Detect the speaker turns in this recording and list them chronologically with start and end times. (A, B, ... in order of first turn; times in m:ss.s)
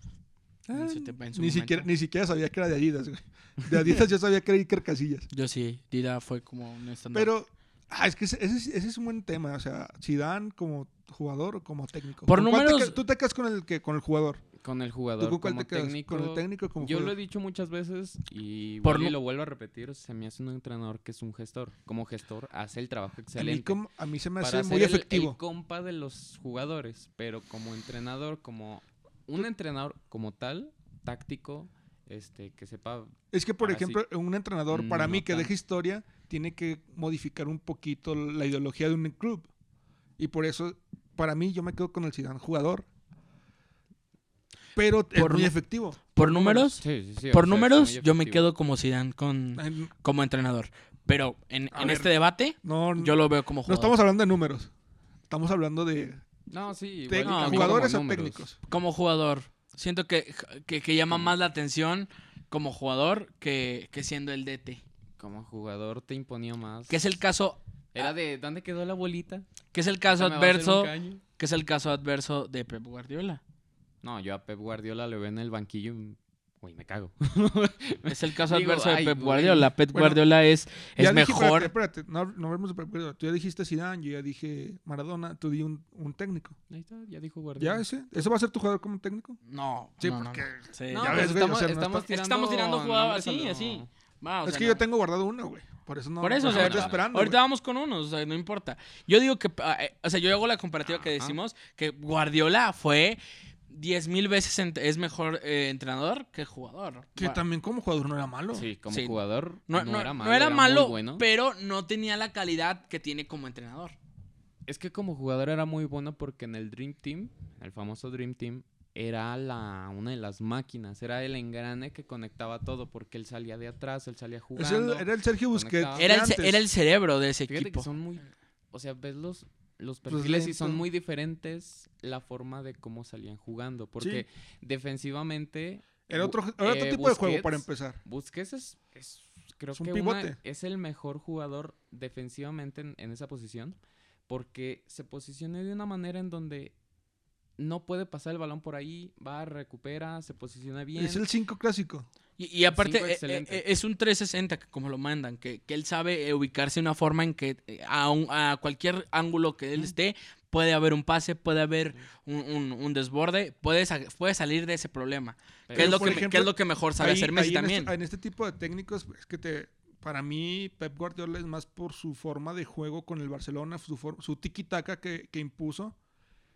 0:00.7-0:05.3 A
0:00.7-0:01.9 B
0:05.3-0:07.3 B
0:07.1-0:14.4 A
0:12.2-0:13.0 B
0:14.6-0:23.8 C
0:15.2-0:17.1 A
0:18.8-0:19.1 B
0:23.4-0:25.4 A
0:24.4-0:34.0 C
0:33.3-0:39.5 A
0:34.7-0:35.5 C
0:40.2-0:42.9 A
0:44.8-0:46.7 A
0:45.1-0:45.5 B
0:46.1-0:46.8 B
0:46.8-0:48.5 C
0:47.3-0:53.9 B
0:49.6-0:49.9 A
0:51.7-0:52.1 A
0:52.6-0:54.7 A
0:55.3-0:56.2 A
0:56.5-0:58.4 C
0:57.1-0:58.6 A
0:57.2-0:57.9 B
0:58.7-1:04.8 B
1:05.2-1:07.0 C
1:06.9-1:08.1 B
1:07.9-1:09.5 C
1:09.7-1:13.4 B
1:10.1-1:11.2 C
1:14.0-1:19.7 C
1:18.1-1:21.7 B
1:19.9-1:20.2 A
1:21.0-1:26.6 A
1:26.7-1:28.2 C
1:27.6-1:29.4 A
1:29.5-1:31.4 B
1:30.0-1:32.1 A
1:30.9-1:33.9 C
1:31.9-1:34.8 B
1:34.4-1:37.4 A
1:36.2-1:43.2 B
1:36.4-1:37.1 C
1:40.9-1:41.4 C
1:43.7-1:47.4 B
1:47.2-1:48.7 A
1:48.5-1:51.2 C
1:48.9-1:54.0 B
1:54.7-2:06.1 C
2:04.5-2:06.6 A
2:05.9-2:07.9 B
2:07.5-2:23.8 C
2:10.1-2:10.8 A
2:16.1-2:18.0 A
2:19.7-2:20.4 A
2:24.3-2:26.7 C
2:27.6-2:31.2 C
2:31.0-2:32.1 A
2:32.4-2:47.9 B
2:32.7-2:33.6 C
2:45.7-2:46.3 C
2:45.7-2:56.0 A